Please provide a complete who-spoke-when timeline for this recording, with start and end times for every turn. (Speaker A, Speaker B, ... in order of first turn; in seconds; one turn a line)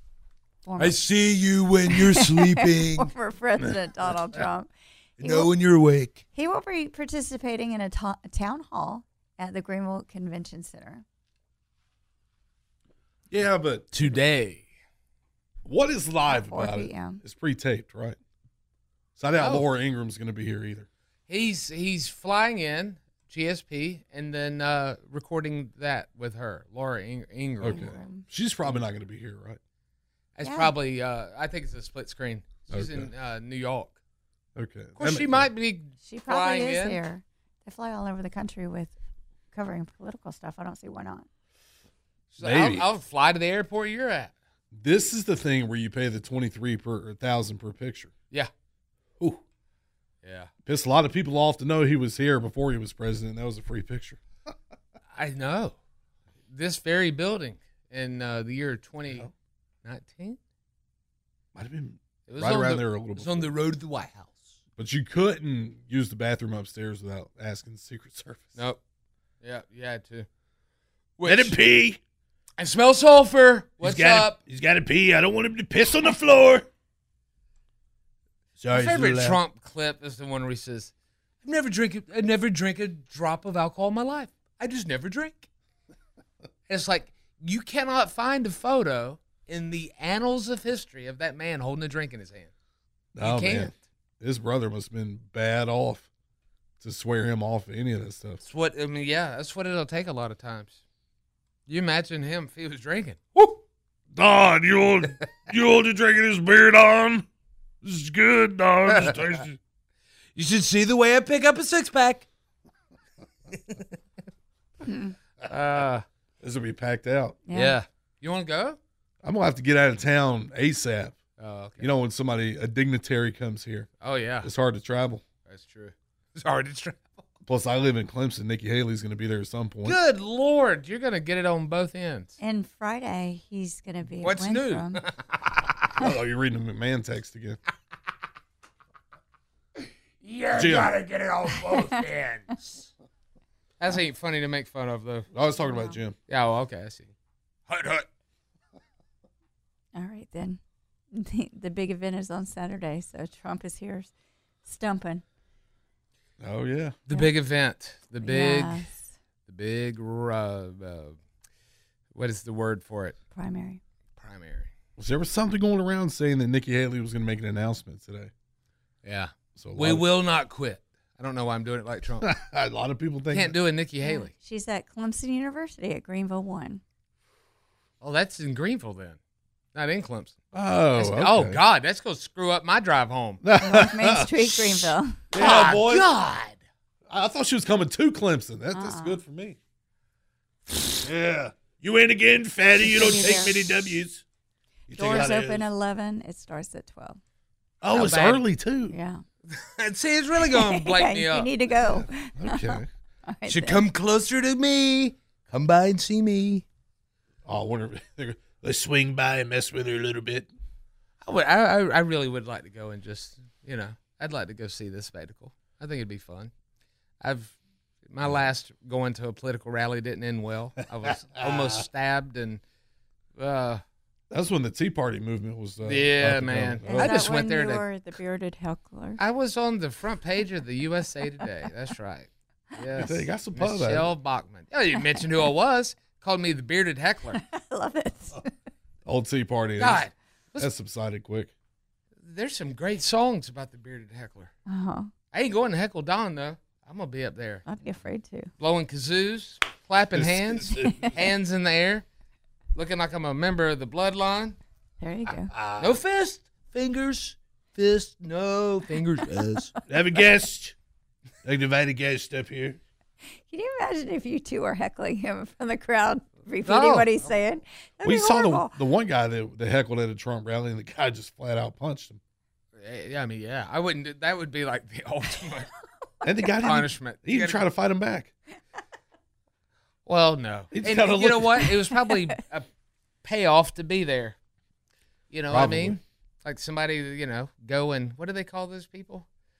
Speaker A: 0.7-1.0
Speaker B: 0.8-3.1
Speaker A: 1.9-4.7
Speaker B: 5.2-6.2
Speaker A: 5.2-5.5
Speaker A: 6.3-11.0
Speaker C: 13.3-13.9
Speaker B: 13.9-14.7
Speaker C: 15.6-18.2
Speaker A: 16.3-17.2
Speaker C: 19.2-20.9
Speaker B: 19.4-19.7
Speaker B: 21.3-27.9
Speaker C: 27.6-29.6
Speaker A: 27.7-28.2
Speaker B: 30.4-34.0
Speaker A: 30.4-30.7
Speaker C: 32.7-33.1
Speaker C: 34.6-35.5
Speaker B: 35.0-37.0
Speaker A: 36.0-38.9
Speaker A: 39.5-41.3
Speaker B: 42.3-44.3
Speaker C: 42.4-42.9
Speaker C: 44.7-48.1
Speaker B: 50.2-50.5
Speaker C: 50.6-54.2
Speaker B: 55.1-55.8
Speaker B: 56.5-59.3
Speaker B: 59.8-60.4
Speaker C: 61.5-63.5
Speaker B: 62.3-64.6
Speaker C: 64.8-68.6
Speaker B: 69.4-70.3
Speaker B: 71.2-71.6
Speaker C: 71.2-72.0
Speaker B: 72.6-74.4
Speaker C: 73.8-76.7
Speaker C: 78.6-79.4
Speaker B: 78.7-80.9
Speaker B: 81.4-85.5
Speaker B: 86.7-92.5
Speaker C: 93.2-96.1
Speaker B: 93.2-93.7
Speaker C: 96.8-98.4
Speaker B: 98.4-100.8
Speaker B: 101.7-103.6
Speaker C: 104.1-107.3
Speaker C: 107.8-109.6
Speaker B: 108.9-109.3
Speaker B: 110.3-112.3
Speaker A: 114.8-115.2
Speaker B: 115.4-116.0
Speaker C: 116.4-117.4
Speaker A: 117.5-117.8
Speaker B: 117.5-118.8
Speaker C: 119.2-121.2
Speaker B: 121.4-121.9
Speaker C: 121.8-123.9
Speaker B: 124.0-124.5
Speaker C: 124.4-125.2
Speaker B: 125.5-127.2
Speaker C: 127.5-130.0
Speaker B: 129.8-132.3
Speaker A: 132.4-135.0
Speaker B: 134.2-135.7
Speaker C: 136.0-137.6
Speaker B: 140.2-142.8
Speaker C: 140.6-141.0
Speaker A: 141.7-142.0
Speaker B: 143.8-145.3
Speaker C: 145.3-146.2
Speaker A: 145.7-146.0
Speaker B: 146.3-147.1
Speaker B: 147.7-148.1
Speaker A: 149.9-150.6
Speaker A: 151.1-154.1
Speaker A: 154.7-155.2
Speaker C: 156.4-157.0
Speaker B: 157.1-158.8
Speaker A: 158.2-159.1
Speaker B: 159.5-161.2
Speaker B: 162.1-163.2
Speaker A: 163.3-163.8
Speaker B: 164.2-164.7
Speaker C: 165.0-168.3
Speaker B: 169.0-172.3
Speaker C: 169.6-170.1
Speaker C: 172.2-173.6
Speaker B: 173.3-174.3
Speaker A: 174.0-176.8
Speaker B: 178.0-179.2
Speaker B: 179.7-180.4
Speaker C: 180.5-181.6
Speaker B: 181.0-183.4
Speaker C: 183.4-186.1
Speaker A: 183.6-185.2
Speaker B: 185.4-186.6
Speaker C: 187.1-189.6
Speaker A: 188.7-189.2
Speaker C: 190.9-194.2
Speaker A: 192.9-193.6
Speaker C: 194.9-195.7
Speaker A: 194.9-197.2
Speaker C: 197.8-199.0
Speaker B: 197.9-198.4
Speaker A: 198.9-199.2
Speaker B: 199.5-201.5
Speaker A: 200.5-203.9
Speaker C: 201.8-202.9
Speaker B: 203.5-206.7
Speaker C: 207.4-210.5
Speaker B: 211.2-216.5
Speaker B: 217.2-217.6
Speaker B: 218.1-222.6
Speaker C: 221.4-221.8
Speaker B: 223.4-223.8
Speaker C: 224.3-227.2
Speaker B: 225.8-227.8
Speaker A: 226.9-229.2
Speaker B: 229.2-237.4
Speaker C: 232.9-234.1
Speaker A: 237.3-238.5
Speaker C: 239.1-240.0
Speaker B: 239.8-240.7
Speaker C: 240.6-241.5
Speaker B: 242.2-244.5
Speaker A: 244.7-245.1
Speaker B: 245.3-247.7
Speaker A: 247.7-248.5
Speaker B: 248.6-252.1
Speaker C: 250.1-251.1
Speaker B: 252.8-254.6
Speaker A: 255.0-255.5
Speaker C: 255.6-255.9
Speaker B: 255.8-259.7
Speaker C: 259.9-260.8
Speaker C: 261.4-262.8
Speaker A: 263.5-268.7
Speaker B: 266.6-267.1
Speaker C: 268.0-272.2
Speaker B: 272.8-275.7
Speaker C: 276.2-278.3
Speaker B: 276.6-277.6
Speaker B: 280.1-282.7
Speaker C: 280.7-281.7
Speaker B: 283.2-284.4
Speaker B: 285.3-289.3
Speaker C: 285.5-286.0